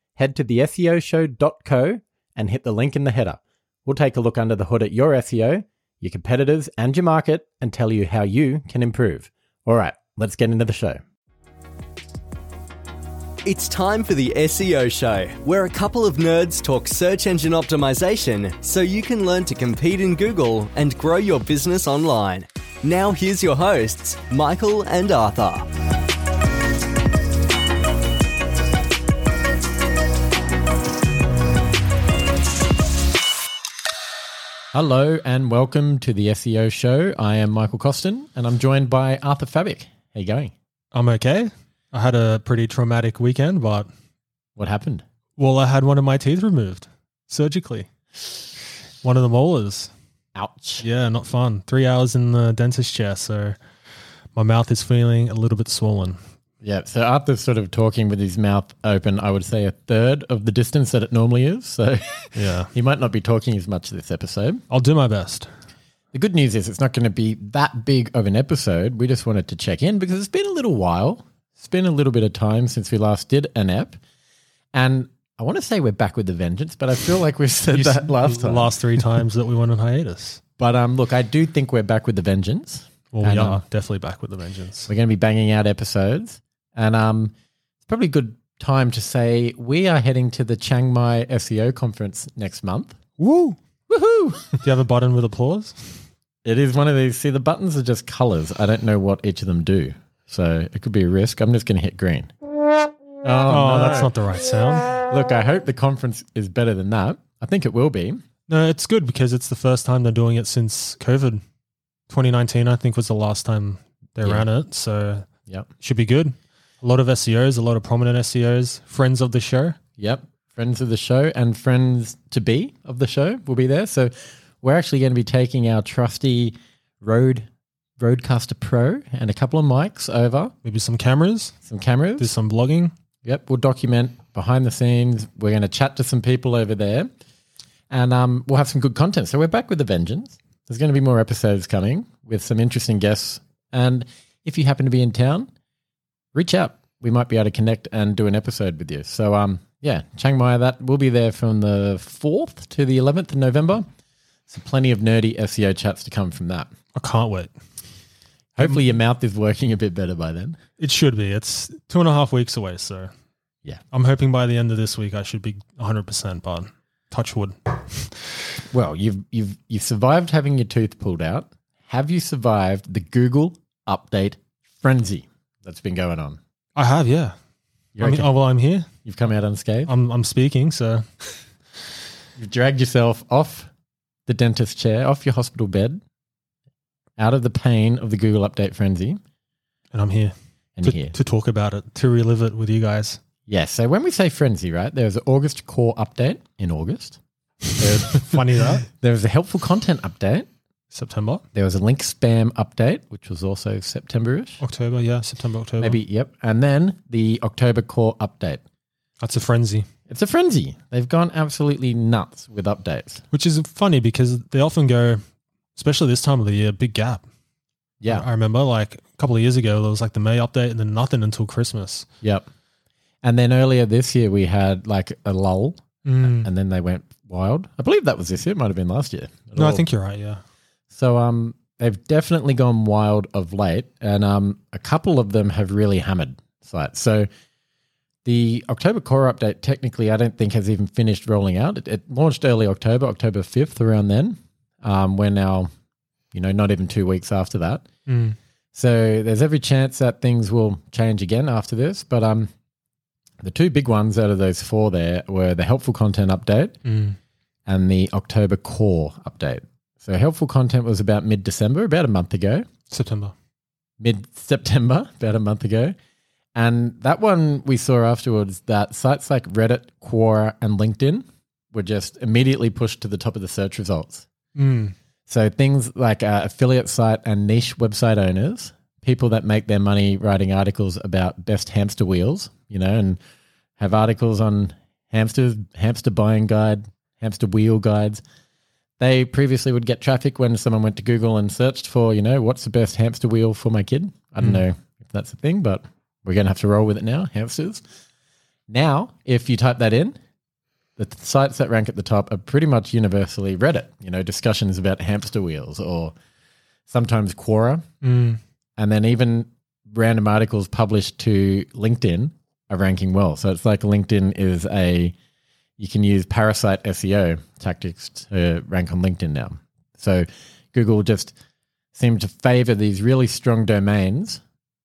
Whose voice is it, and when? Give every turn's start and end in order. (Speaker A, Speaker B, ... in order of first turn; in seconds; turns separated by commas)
Speaker A: 0.2-11.0, Speaker B: 13.4-25.7, Speaker A: 34.7-40.5, Speaker C: 40.9-43.9, Speaker A: 44.5-45.0, Speaker C: 45.4-49.9, Speaker A: 50.4-50.9, Speaker C: 50.8-53.6, Speaker C: 54.4-56.2, Speaker A: 56.6-64.6, Speaker C: 62.4-62.7, Speaker C: 64.7-65.5, Speaker A: 66.1-74.0, Speaker A: 74.7-78.8, Speaker C: 77.7-80.4, Speaker A: 80.6-83.6, Speaker C: 83.1-84.9, Speaker A: 84.9-87.3, Speaker A: 87.8-93.0, Speaker C: 93.2-93.6, Speaker A: 93.9-94.6, Speaker C: 94.6-96.0, Speaker A: 96.4-102.3, Speaker A: 103.2-104.1, Speaker C: 103.5-105.0, Speaker A: 105.0-108.2, Speaker C: 108.5-111.4, Speaker C: 112.1-115.2, Speaker C: 115.8-119.8, Speaker A: 120.0-127.5, Speaker A: 128.0-130.5, Speaker C: 130.6-131.5, Speaker A: 131.6-132.3, Speaker C: 132.2-132.9, Speaker A: 133.2-137.1, Speaker A: 137.9-145.5, Speaker A: 146.3-153.8, Speaker A: 154.5-156.7, Speaker C: 156.9-157.5, Speaker A: 158.6-160.6, Speaker C: 160.8-163.1, Speaker C: 163.9-168.4, Speaker A: 168.7-176.4, Speaker C: 176.8-177.3, Speaker A: 177.9-178.3, Speaker C: 178.0-178.9, Speaker A: 179.0-179.9, Speaker C: 179.9-181.1, Speaker A: 182.4-183.7, Speaker A: 184.3-186.0, Speaker A: 187.2-189.2, Speaker C: 189.9-193.2, Speaker A: 190.8-191.1, Speaker A: 193.5-197.2, Speaker A: 197.8-200.5, Speaker C: 198.0-198.8, Speaker C: 200.9-201.4, Speaker A: 201.5-204.6, Speaker C: 204.6-206.0, Speaker A: 205.8-208.6, Speaker C: 209.2-209.8, Speaker A: 210.1-213.2, Speaker C: 213.3-215.2, Speaker C: 215.8-217.2, Speaker A: 218.0-218.2, Speaker C: 218.1-222.1, Speaker A: 223.2-229.8, Speaker C: 226.0-226.5, Speaker C: 229.6-230.4, Speaker A: 230.9-237.3, Speaker A: 238.2-245.7, Speaker A: 246.3-247.8, Speaker C: 248.1-248.3, Speaker A: 248.8-252.5, Speaker A: 253.4-256.8, Speaker C: 256.8-257.2, Speaker A: 257.7-262.6, Speaker C: 262.9-263.3, Speaker A: 264.0-265.9, Speaker A: 266.6-274.3, Speaker C: 274.6-274.9, Speaker A: 275.3-283.2, Speaker A: 283.8-288.2, Speaker A: 289.0-297.8, Speaker A: 298.7-300.2, Speaker A: 301.0-306.1, Speaker A: 306.9-307.8, Speaker C: 308.0-308.4, Speaker A: 308.8-315.1, Speaker A: 315.8-321.3, Speaker A: 321.9-324.4